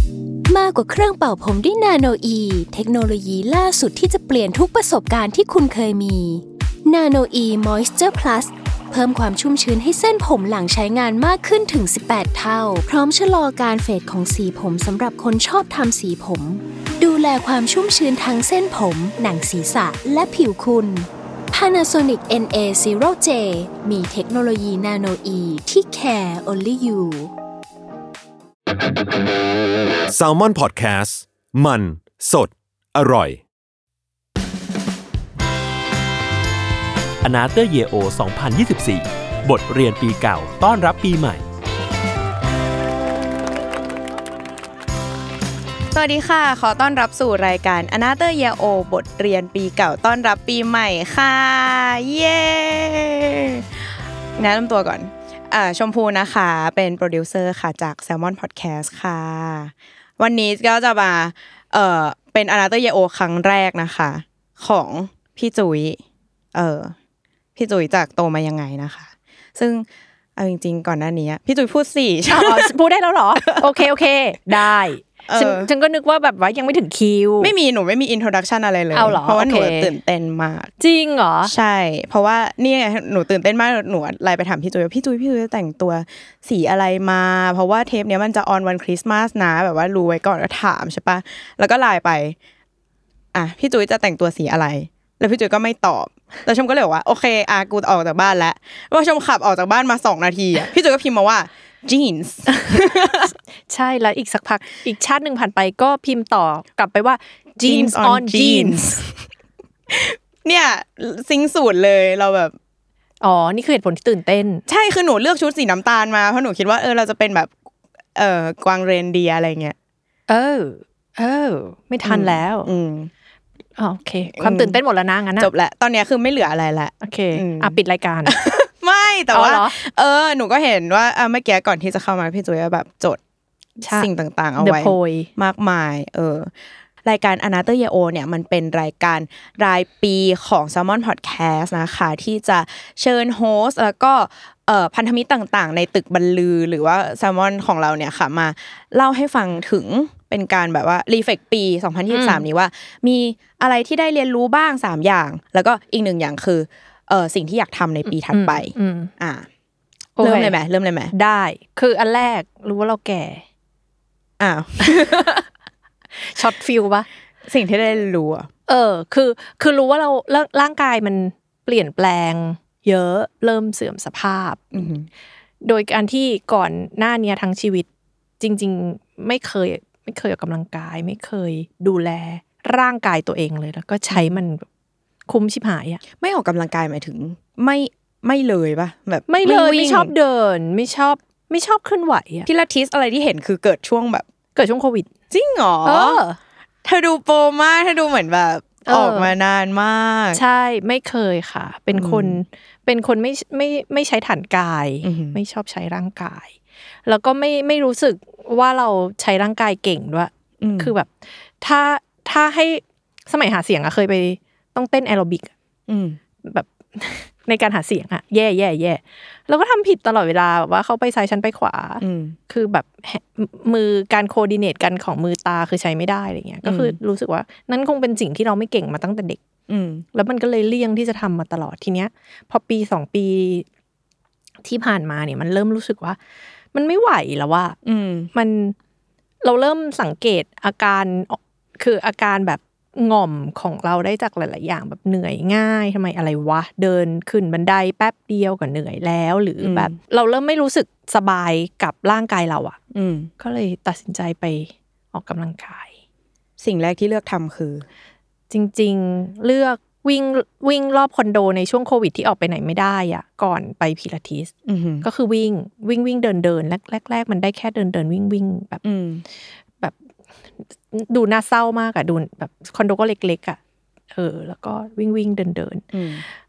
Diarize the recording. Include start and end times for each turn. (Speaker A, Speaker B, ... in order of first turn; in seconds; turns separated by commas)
Speaker A: 0.5-27.3, Speaker B: 30.1-33.4, Speaker C: 37.2-41.4, Speaker D: 45.9-66.0, Speaker D: 66.5-67.0, Speaker D: 67.6-72.7, Speaker E: 72.3-77.5, Speaker D: 73.5-73.8, Speaker D: 75.3-75.7, Speaker D: 77.4-80.7, Speaker E: 78.9-79.9, Speaker E: 80.8-81.5, Speaker D: 81.4-92.4, Speaker D: 93.3-103.3, Speaker E: 102.5-109.0, Speaker D: 107.6-109.1, Speaker D: 109.9-112.5, Speaker E: 113.2-114.6, Speaker D: 114.7-117.5, Speaker D: 118.2-119.8, Speaker E: 120.3-122.7, Speaker D: 122.0-123.1, Speaker E: 123.8-125.5, Speaker D: 124.4-124.8, Speaker D: 125.4-133.2, Speaker E: 127.0-128.4, Speaker E: 129.3-129.8, Speaker E: 133.8-135.3, Speaker D: 133.8-159.5, Speaker E: 152.1-152.4, Speaker E: 158.3-159.1, Speaker E: 160.2-160.6, Speaker D: 160.2-161.1, Speaker E: 161.1-163.4, Speaker D: 164.4-165.4, Speaker E: 164.8-165.4, Speaker E: 166.2-167.1, Speaker D: 167.4-168.5, Speaker E: 168.7-174.9, Speaker D: 174.7-175.1, Speaker E: 175.6-177.9, Speaker E: 178.4-184.7, Speaker D: 184.1-184.4, Speaker E: 185.3-186.0, Speaker D: 186.2-190.1, Speaker E: 189.3-192.5, Speaker D: 192.5-194.2, Speaker E: 194.6-195.1, Speaker D: 195.3-196.2, Speaker E: 195.8-196.4, Speaker D: 196.8-200.4, Speaker E: 198.9-199.3, Speaker E: 200.3-215.5, Speaker D: 201.9-202.4, Speaker D: 205.0-205.4, Speaker D: 210.6-210.9, Speaker D: 215.9-216.2, Speaker E: 216.4-229.4, Speaker D: 222.0-222.4, Speaker D: 226.6-227.0, Speaker D: 229.7-230.1, Speaker E: 230.1-233.7, Speaker E: 234.6-236.2, Speaker E: 236.7-237.8, Speaker D: 237.8-238.3, Speaker E: 238.3-238.8, Speaker E: 239.4-252.8, Speaker D: 249.6-249.9, Speaker D: 252.9-253.3, Speaker E: 253.4-255.9, Speaker D: 256.6-257.9, Speaker E: 258.5-268.8, Speaker D: 264.7-265.1, Speaker D: 268.8-269.2, Speaker E: 270.6-273.6, Speaker E: 274.1-275.9, Speaker D: 275.9-276.2